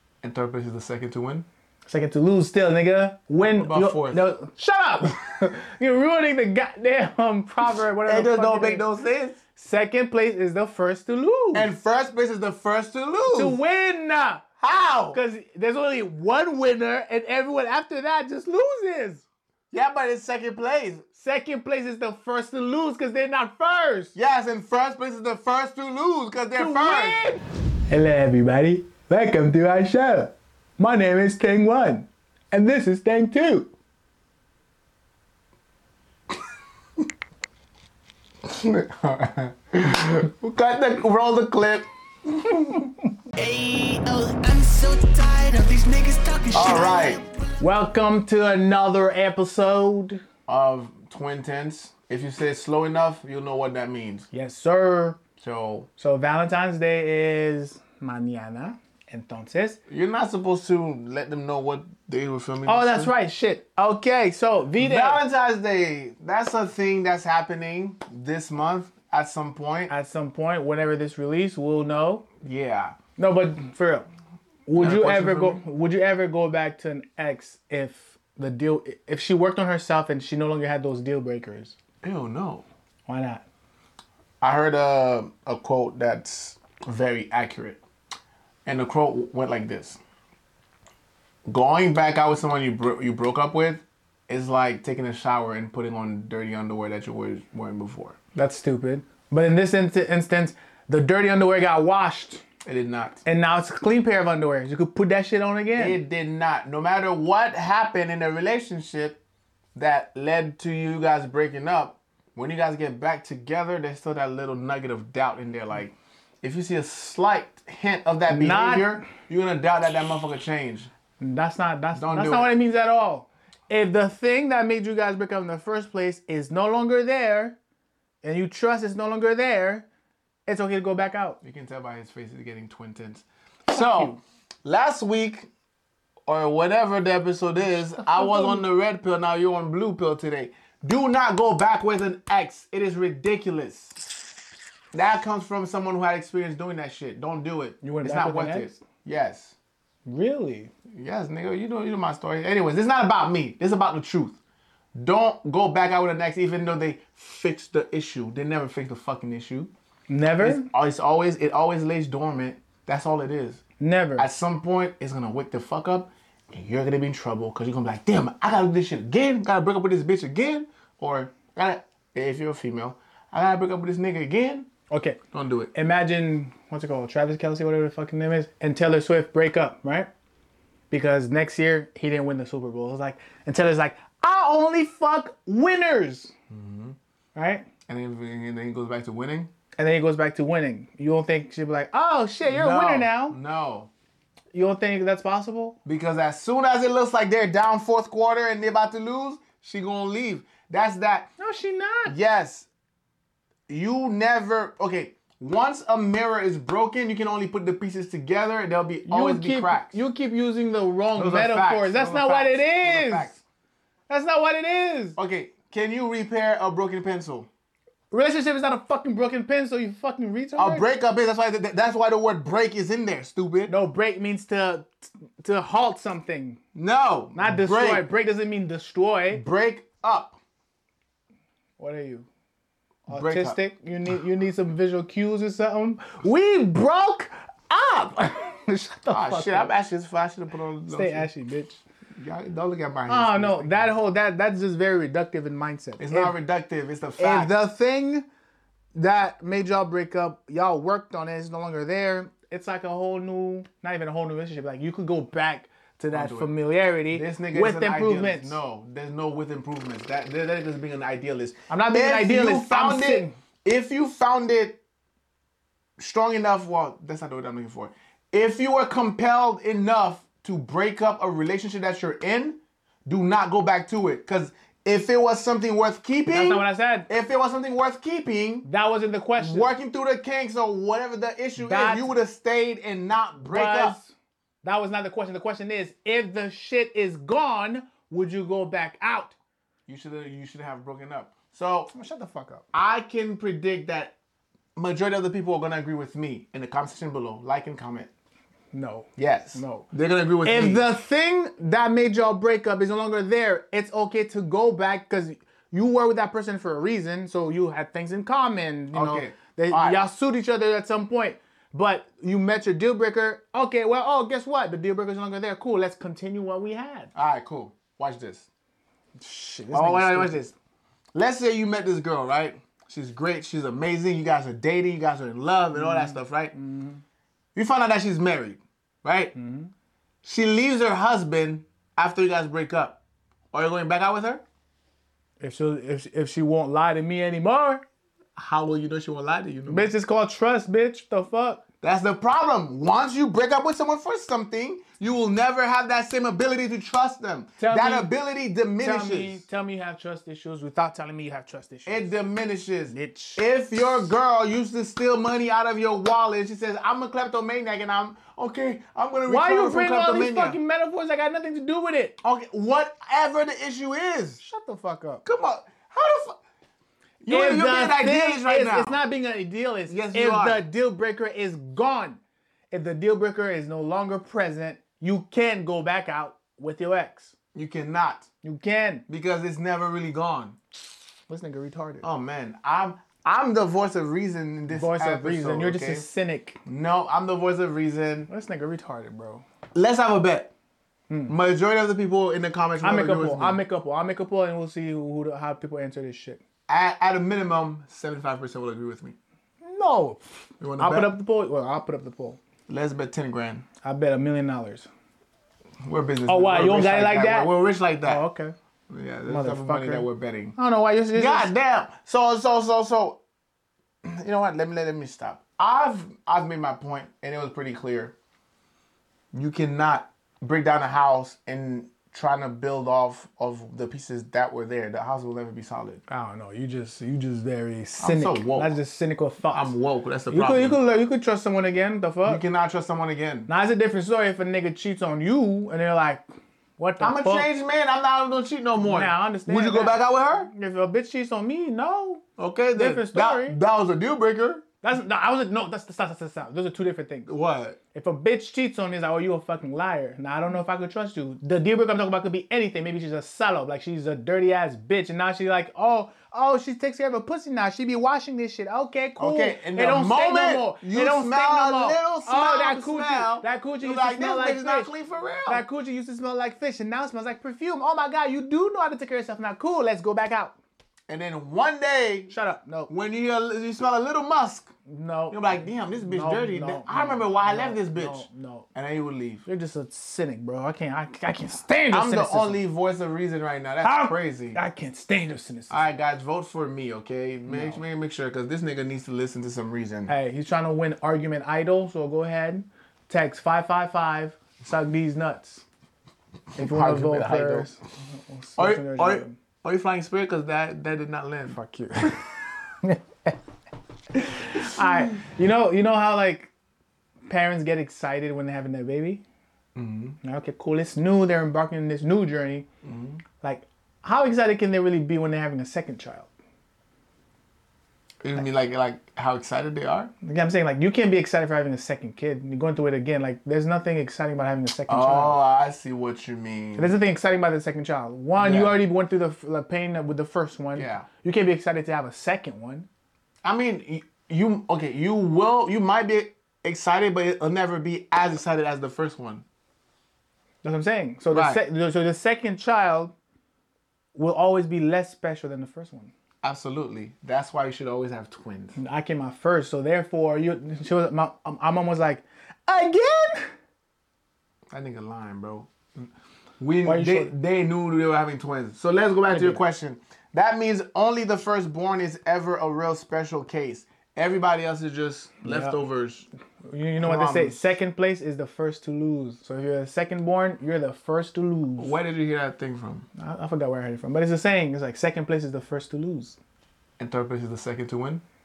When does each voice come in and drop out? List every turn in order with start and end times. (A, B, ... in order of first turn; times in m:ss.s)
0:00.2-0:01.5 A
0:01.8-0:08.8 B
0:03.4-0:04.2 A
0:08.0-0:09.4 A
0:09.6-0:11.7 B
0:11.5-0:13.6 A
0:13.3-0:14.4 B
0:14.6-0:15.2 A
0:15.1-0:19.2 B
0:19.7-0:21.0 A
0:21.2-0:24.1 B
0:24.1-0:27.2 A
0:26.5-0:33.7 B
0:38.4-0:42.9 A
0:43.4-0:47.2 C
0:46.5-0:47.2 A
0:47.6-0:50.2 B
0:50.5-0:54.3 A
0:54.3-0:55.2 B
0:55.4-0:55.9 A
0:56.0-0:59.8 B
0:59.9-1:03.1 A
1:02.6-1:05.2 B
1:04.8-1:09.9 A
1:09.9-1:12.2 B
1:12.4-1:13.0 A
1:13.2-1:14.1 B
1:14.7-1:21.8 B
1:14.8-1:15.6 A
1:22.0-1:22.6 A
1:23.1-1:23.4 B
1:24.4-1:27.8 A
1:28.6-1:30.0 A
1:31.5-1:38.2 A
1:38.3-1:42.4 B
1:42.6-1:43.2 A
1:43.2-1:46.0 B
1:45.8-1:49.2 A
1:49.7-2:00.9 A
1:58.3-1:59.0 B
2:01.2-2:07.6 B
2:01.9-2:02.5 A
2:08.2-2:09.8 B
2:10.4-2:11.4 B
2:11.4-2:15.5 A
2:13.7-2:14.2 B
2:16.3-2:24.0 A
2:17.7-2:18.6 B
2:24.9-2:29.6 A
2:27.8-2:28.7 B
2:30.1-2:30.7 B
2:30.9-2:34.4 A
2:34.9-2:39.7 A
2:40.1-2:40.7 B
2:40.4-2:43.6 A
2:43.8-2:44.3 B
2:44.2-2:54.7 A
2:54.9-2:55.2 B
2:55.3-2:55.7 A
2:55.7-3:00.1 B
3:00.9-3:06.3 B
3:06.5-3:07.0 A
3:07.3-3:07.6 B
3:07.9-3:09.5 A
3:09.8-3:13.4 B
3:12.4-3:13.9 A
3:14.5-3:15.8 B
3:15.8-3:21.3 A
3:21.4-3:22.1 B
3:22.1-3:22.7 A
3:23.7-3:30.0 A
3:29.0-3:33.3 B
3:31.2-3:33.4 A
3:34.1-3:35.2 B
3:35.2-3:37.5 A
3:38.1-3:40.8 B
3:40.6-3:43.7 A
3:43.7-3:46.6 B
3:46.7-3:48.0 A
3:47.3-3:49.4 B
3:49.3-3:50.4 A
3:51.8-3:52.3 B
3:53.1-3:53.6 A
3:53.1-3:59.7 B
3:59.1-4:01.3 A
4:00.9-4:01.8 B
4:02.2-4:03.9 A
4:03.1-4:06.3 B
4:06.0-4:07.5 A
4:07.2-4:08.2 B
4:08.9-4:18.6 B
4:16.1-4:16.5 A
4:17.1-4:24.8 A
4:21.7-4:23.3 B
4:26.0-4:38.6 A
4:36.3-4:37.1 B
4:38.6-4:39.7 B
4:39.4-4:44.0 A
4:41.6-4:42.1 B
4:43.4-4:49.3 B
4:49.9-4:51.9 A
4:51.9-4:52.6 B
4:52.7-4:54.1 A
4:54.8-4:58.1 A
4:58.7-4:59.9 B
4:59.2-5:00.8 A
5:00.4-5:17.1 B
5:08.9-5:10.0 A
5:17.1-5:18.5 A
5:19.2-5:20.4 B
5:19.7-5:20.5 A
5:21.1-5:26.5 A
5:25.7-5:27.0 B
5:27.5-5:29.3 A
5:29.3-5:29.7 B
5:30.2-5:33.0 A
5:33.5-5:34.4 A
5:35.4-5:37.8 B
5:38.4-5:39.9 A
5:39.7-5:41.6 B
5:41.8-5:49.4 A
5:47.6-5:48.1 B
5:48.8-5:52.1 B
5:51.8-6:00.6 A
5:52.9-5:53.4 B
5:59.2-6:02.2 B
6:02.2-6:04.4 A
6:04.4-6:05.2 B
6:05.2-6:06.4 A
6:07.2-6:09.0 A
6:07.3-6:12.2 B
6:09.9-6:10.6 A
6:12.7-6:17.3 B
6:17.5-6:18.3 A
6:18.4-6:19.0 B
6:19.1-6:20.6 A
6:21.3-6:22.0 B
6:22.0-6:26.1 A
6:24.7-6:26.6 B
6:26.6-6:28.3 A
6:28.3-6:29.4 B
6:29.7-6:30.5 A
6:31.1-6:31.3 B
6:31.3-6:33.6 A
6:32.8-6:36.4 B
6:36.7-6:39.2 A
6:39.6-6:42.4 B
6:40.6-6:41.1 A
6:42.7-6:43.6 A
6:43.8-6:44.9 B
6:45.8-6:48.2 A
6:46.3-6:47.5 B
6:48.0-6:48.5 B
6:48.9-6:50.6 A
6:49.3-6:51.5 B
6:51.1-6:53.2 A
6:54.0-6:58.1 A
6:59.3-7:06.0 A
7:06.1-7:09.7 B
7:08.0-7:08.8 A
7:09.5-7:10.8 A
7:10.3-7:12.4 B
7:12.2-7:13.5 A
7:13.5-7:16.2 B
7:16.8-7:17.5 B
7:17.0-7:20.5 A
7:18.8-7:22.2 B
7:22.4-7:24.6 A
7:22.7-7:23.6 B
7:24.8-7:27.3 B
7:27.3-7:27.8 A
7:27.9-7:44.9 B
7:39.2-7:45.6 A
7:45.5-7:50.6 B
7:51.1-7:52.3 A
7:52.3-7:52.9 B
7:52.9-7:54.7 A
7:54.8-7:58.7 B
7:55.3-7:59.4 A
7:59.4-8:02.6 B
8:01.9-8:04.6 A
8:03.8-8:05.8 B
8:05.7-8:10.1 A
8:07.5-8:07.8 B
8:10.1-8:15.6 B
8:16.6-8:17.7 A
8:16.6-8:19.4 B
8:18.6-8:21.6 A
8:21.5-8:23.4 B
8:24.1-8:26.5 B
8:27.3-8:29.2 B
8:29.8-8:30.2 A
8:30.2-8:32.7 B
8:32.8-8:33.2 A
8:33.4-8:36.3 B
8:38.2-8:40.1 A
8:40.2-8:45.4 B
8:44.9-8:46.9 A
8:46.8-8:52.9 B
8:48.4-8:48.8 A
8:50.7-8:51.1 A
8:53.4-8:59.4 A
9:00.6-9:03.1 B
9:01.3-9:01.6 A
9:04.1-9:06.1 B
9:06.4-9:08.8 A
9:08.8-9:13.5 B
9:14.7-9:16.1 A
9:16.6-9:26.3 A
9:16.8-9:17.3 B
9:19.3-9:19.6 B
9:25.4-9:25.8 B
9:26.6-9:32.0 B
9:27.0-9:27.7 A
9:31.8-9:33.1 A
9:33.2-9:36.4 B
9:37.0-9:38.2 A